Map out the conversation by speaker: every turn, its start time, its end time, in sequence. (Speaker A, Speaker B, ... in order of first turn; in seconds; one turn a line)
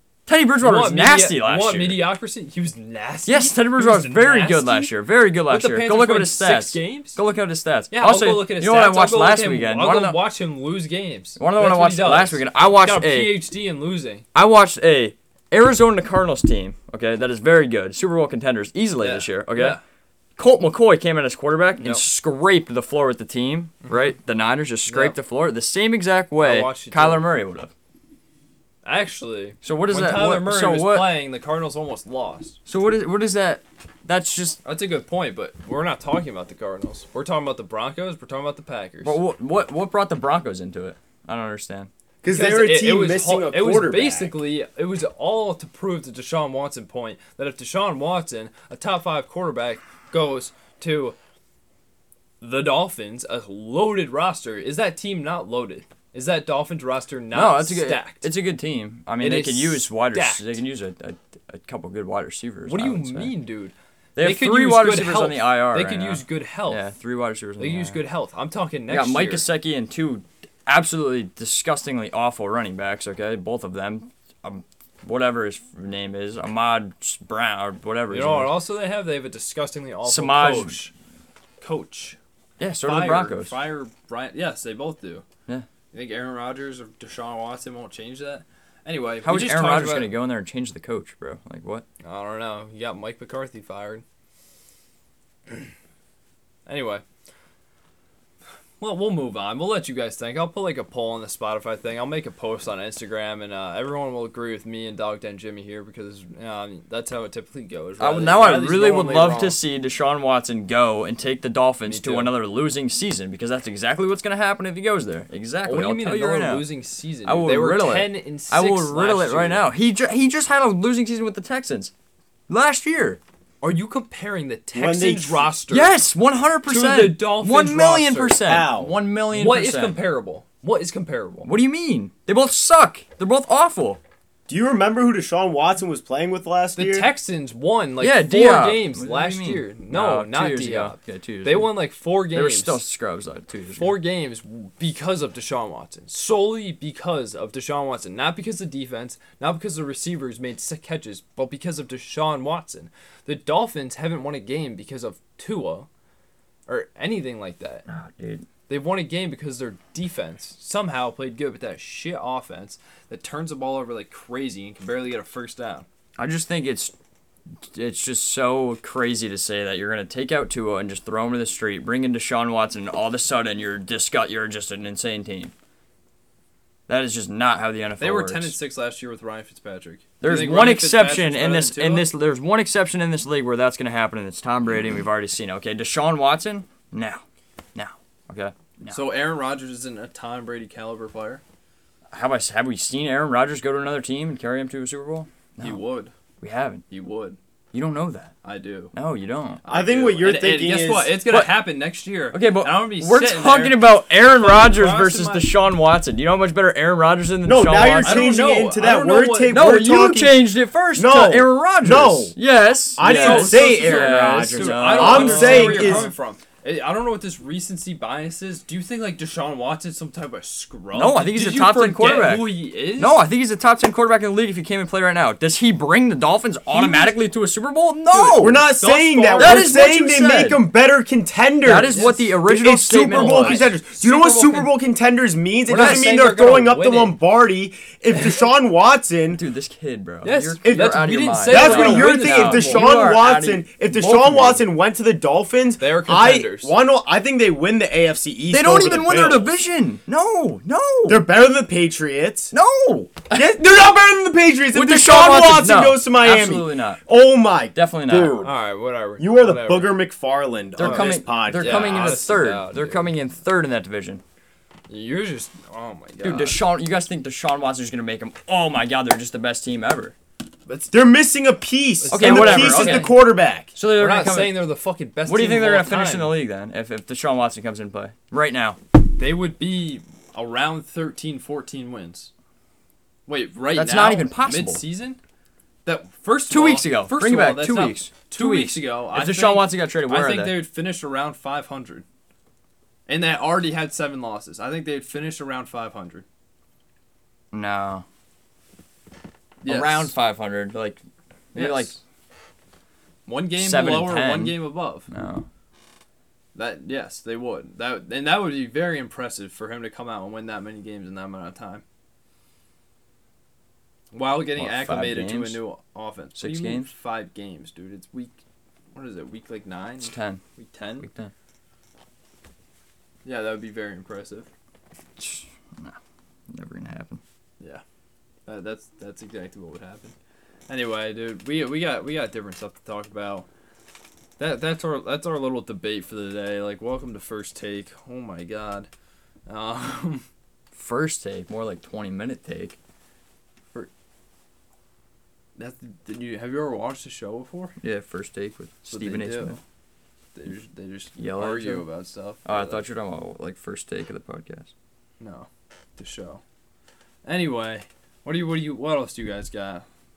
Speaker A: 0.3-2.1
Speaker B: 0.6-4.9
Speaker A: 3.3-10.2
Speaker B: 5.5-7.2
Speaker B: 7.9-14.2
Speaker A: 11.4-13.5
Speaker A: 14.3-19.8
Speaker B: 19.0-19.8
Speaker A: 20.4-27.7
Speaker B: 21.8-22.1
Speaker B: 24.9-25.2
Speaker B: 26.4-27.3
Speaker B: 28.9-32.6
Speaker A: 29.6-31.2
Speaker A: 32.7-34.6
Speaker B: 34.6-39.2
Speaker A: 39.0-41.9
Speaker C: 42.2-44.4
Speaker B: 42.3-51.2
Speaker B: 52.4-58.3
Speaker A: 57.3-63.4
Speaker B: 59.2-60.6
Speaker B: 62.7-66.8
Speaker A: 64.2-68.0
Speaker B: 67.6-69.5
Speaker A: 68.9-78.5
Speaker B: 78.1-80.9
Speaker A: 80.0-80.8
Speaker B: 81.6-82.2
Speaker A: 82.6-83.6
Speaker B: 82.8-85.2
Speaker B: 85.9-90.1
Speaker A: 89.2-91.9
Speaker B: 92.0-94.0
Speaker B: 96.7-97.0
Speaker B: 98.8-109.6
Speaker A: 108.0-116.7
Speaker B: 111.8-112.3
Speaker B: 115.6-119.6
Speaker A: 117.2-121.9
Speaker A: 122.5-123.2
Speaker B: 123.6-125.9
Speaker C: 124.7-125.5
Speaker A: 125.7-130.0
Speaker B: 126.7-128.4
Speaker C: 128.4-128.9
Speaker B: 129.3-131.5
Speaker A: 131.4-134.0
Speaker C: 134.5-137.1
Speaker B: 136.8-142.8
Speaker A: 138.0-144.0
Speaker B: 143.8-155.9
Speaker B: 156.7-157.9
Speaker A: 157.9-158.5
Speaker B: 158.7-165.9
Speaker A: 166.2-166.9
Speaker A: 167.6-175.5
Speaker A: 176.9-178.6
Speaker B: 178.0-182.1
Speaker A: 180.2-187.2
Speaker A: 187.8-189.0
Speaker B: 188.9-191.4
Speaker A: 192.1-195.8
Speaker B: 195.6-196.1
Speaker A: 196.4-196.8
Speaker B: 196.9-197.4
Speaker A: 197.7-198.3
Speaker B: 198.4-198.9
Speaker A: 198.9-199.6
Speaker B: 199.6-205.5
Speaker C: 199.7-201.2
Speaker A: 201.3-201.6
Speaker A: 202.3-208.4
Speaker C: 207.4-212.4
Speaker B: 208.0-209.7
Speaker A: 209.5-216.1
Speaker C: 213.0-216.1
Speaker B: 213.0-223.2
Speaker A: 220.9-228.6
Speaker B: 226.8-227.1
Speaker C: 226.8-227.1
Speaker B: 228.1-229.8
Speaker C: 228.4-239.4
Speaker A: 229.4-230.7
Speaker A: 231.6-233.7
Speaker B: 231.9-232.3
Speaker B: 233.1-234.7
Speaker B: 235.7-237.2
Speaker A: 235.7-236.2
Speaker A: 239.3-244.6
Speaker B: 240.2-242.9
Speaker C: 240.6-249.5
Speaker B: 245.8-246.7
Speaker A: 248.5-251.2
Speaker C: 251.1-252.6
Speaker A: 252.5-253.3
Speaker C: 253.3-258.5
Speaker A: 254.7-257.0
Speaker A: 257.7-258.5
Speaker B: 258.4-259.9
Speaker C: 259.2-262.1
Speaker A: 260.8-264.2
Speaker B: 260.8-263.1
Speaker B: 264.9-266.6
Speaker A: 266.2-270.1
Speaker B: 270.7-270.9
Speaker C: 270.9-273.7
Speaker B: 272.0-273.2
Speaker A: 272.1-274.7
Speaker B: 273.9-276.4
Speaker A: 275.3-278.8
Speaker B: 279.2-282.3
Speaker B: 283.3-285.2
Speaker A: 283.8-284.8
Speaker B: 285.9-292.1
Speaker A: 286.5-290.6
Speaker B: 293.1-296.2
Speaker A: 297.5-298.1
Speaker B: 299.6-300.1
Speaker A: 299.6-301.0
Speaker A: 301.5-302.0
Speaker B: 301.6-302.0
Speaker B: 303.3-305.1
Speaker A: 303.6-305.5
Speaker B: 306.6-311.8
Speaker B: 314.1-318.4
Speaker A: 314.6-315.6
Speaker A: 316.4-316.9
Speaker B: 318.9-321.1
Speaker A: 320.0-320.4
Speaker A: 321.0-321.3
Speaker B: 323.2-324.5
Speaker A: 325.2-326.0
Speaker A: 326.5-327.2
Speaker B: 328.5-330.1
Speaker B: 330.7-333.5
Speaker B: 334.4-338.9
Speaker B: 339.5-340.2
Speaker A: 340.7-342.8
Speaker B: 345.6-347.8
Speaker A: 347.8-349.6
Speaker B: 348.9-349.6
Speaker B: 350.4-352.9
Speaker A: 351.2-351.9
Speaker A: 352.4-354.7
Speaker B: 355.2-356.4
Speaker B: 357.2-359.9